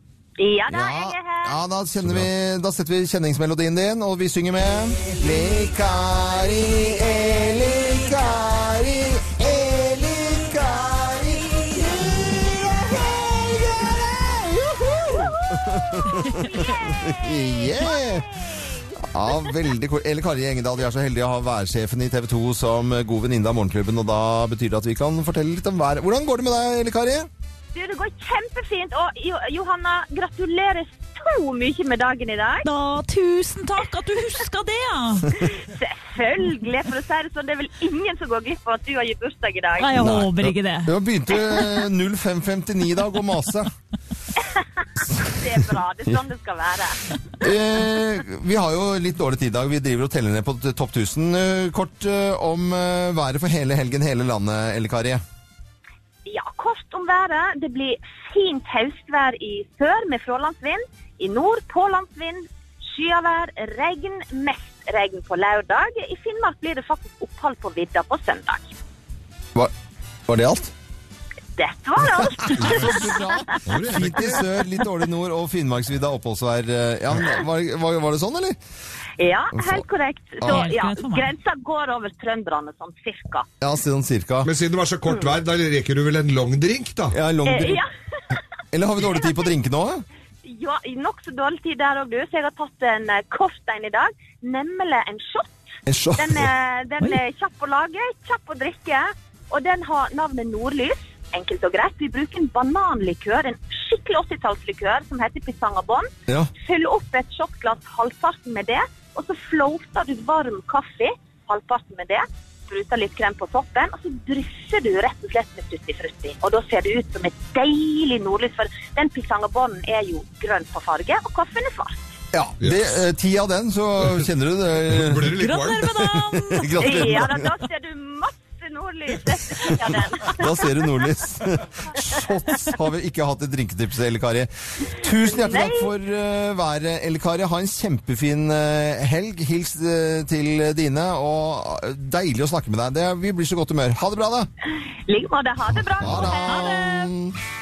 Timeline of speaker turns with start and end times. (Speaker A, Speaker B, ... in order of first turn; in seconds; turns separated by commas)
Speaker A: 0.4-1.6, Speaker B: 0.7-18.3, Speaker C: 16.1-16.6, Speaker B: 19.0-27.3, Speaker A: 27.7-32.7, Speaker C: 32.6-35.4, Speaker A: 35.3-40.0, Speaker C: 39.8-40.9, Speaker B: 40.0-43.7, Speaker A: 45.1-47.0, Speaker B: 47.4-55.2, Speaker A: 56.2-68.7, Speaker B: 70.3-70.7, Speaker A: 71.6-73.6, Speaker B: 72.2-78.6, Speaker D: 72.6-72.9, Speaker D: 73.7-74.5, Speaker A: 79.2-83.5, Speaker B: 79.5-79.8, Speaker B: 80.4-80.7, Speaker C: 80.4-81.3, Speaker B: 83.6-84.5, Speaker D: 84.4-87.2, Speaker B: 87.1-87.8, Speaker A: 87.5-87.9, Speaker B: 88.7-90.0, Speaker A: 90.4-95.6, Speaker B: 95.9-96.5, Speaker A: 96.2-122.0, Speaker B: 122.3-127.5, Speaker D: 122.6-122.9, Speaker D: 124.9-125.8, Speaker C: 125.4-127.3, Speaker A: 126.8-130.9, Speaker B: 129.6-144.5, Speaker A: 135.2-135.9, Speaker A: 145.1-147.1, Speaker B: 146.0-147.3